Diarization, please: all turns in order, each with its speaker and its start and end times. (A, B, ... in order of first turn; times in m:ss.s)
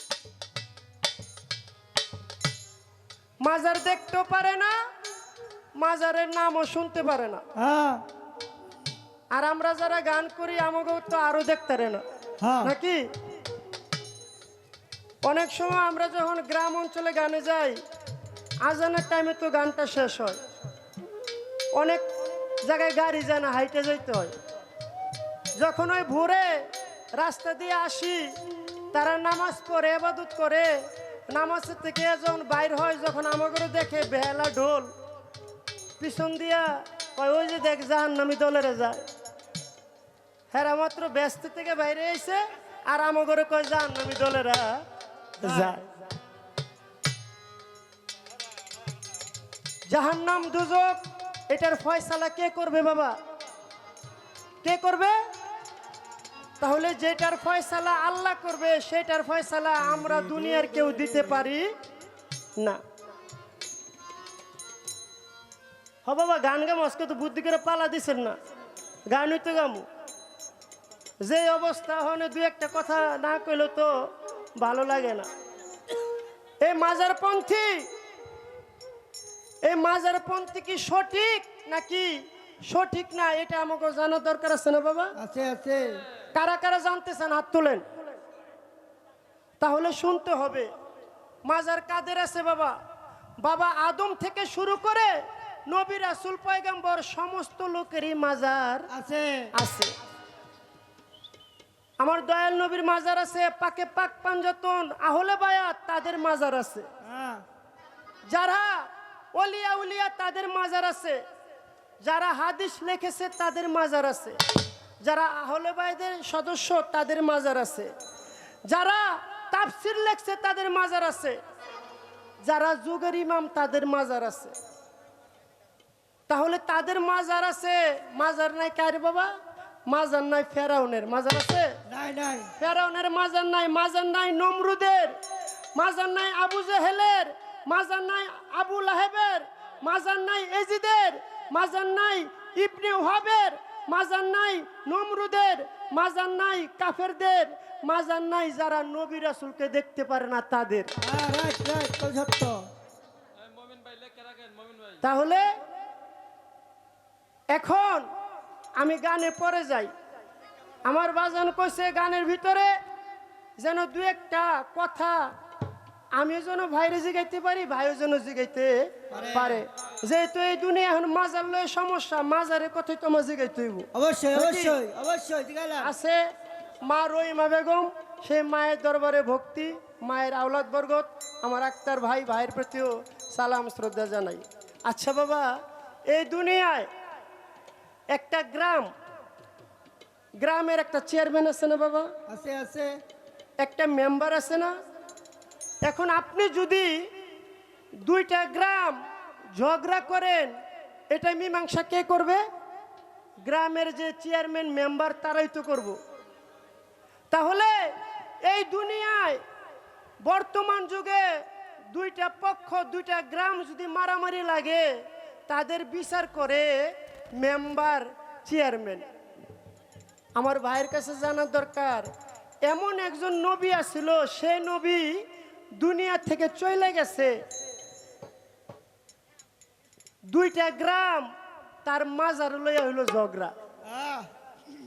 0:03.4-0:04.8 A
0:05.8-0:07.4 A
0:07.6-0:08.0 B
0:09.3-0:12.0 A
0:12.4-0:12.7 B
0:12.6-0:13.1 A
0:15.2-0:17.8 A
0:18.6-0:20.4 A
0:21.7-0:22.0 A
0:22.6-0:24.3 A
0:25.6-0:28.3 A
0:28.9-0:34.9 A
0:36.0-0:39.0 A
0:40.5-0:44.8 A
0:45.4-0:45.9 A
0:45.4-0:45.7 B
0:49.9-0:53.1 A
0:54.6-0:55.2 A
0:56.6-1:01.7 A
0:59.9-1:01.4 B
1:06.1-1:08.4 A
1:09.1-1:09.8 A
1:11.2-1:15.3 A
1:16.6-1:17.9 A
1:19.6-1:25.1 A
1:25.2-1:26.0 B
1:26.3-1:27.8 A
1:29.6-1:30.7 A
1:31.4-1:32.8 A
1:33.4-1:38.9 A
1:38.9-1:39.5 B
1:39.5-1:39.9 A
1:42.0-1:46.9 A
1:47.0-1:47.4 B
1:48.3-1:51.2 A
1:52.0-1:54.4 A
1:55.0-1:57.9 A
1:58.7-2:01.4 A
2:02.4-2:04.6 A
2:06.3-2:09.3 A
2:09.9-2:11.8 A
2:11.9-2:12.5 B
2:12.6-2:15.2 A
2:15.8-2:30.9 A
2:31.0-2:32.7 B
2:35.0-2:35.5 A
2:37.5-2:38.1 A
2:38.8-2:39.9 A
2:40.8-2:42.7 A
2:43.6-2:45.3 A
2:46.1-2:54.8 A
2:49.1-2:49.6 B
2:53.9-2:55.9 B
2:55.8-2:56.2 A
2:56.8-3:05.6 A
3:06.1-3:06.9 A
3:08.1-3:08.9 A
3:10.4-3:12.1 A
3:12.3-3:13.0 B
3:13.6-3:14.8 A
3:15.8-3:17.1 A
3:18.0-3:19.0 A
3:19.6-3:20.6 A
3:21.1-3:22.4 A
3:23.4-3:26.0 A
3:27.3-3:29.4 A
3:30.2-3:39.1 A
3:40.4-3:42.1 A
3:42.6-3:45.2 A
3:45.8-3:47.4 A
3:50.3-3:51.3 A
3:51.8-3:53.5 A
3:53.8-3:54.3 B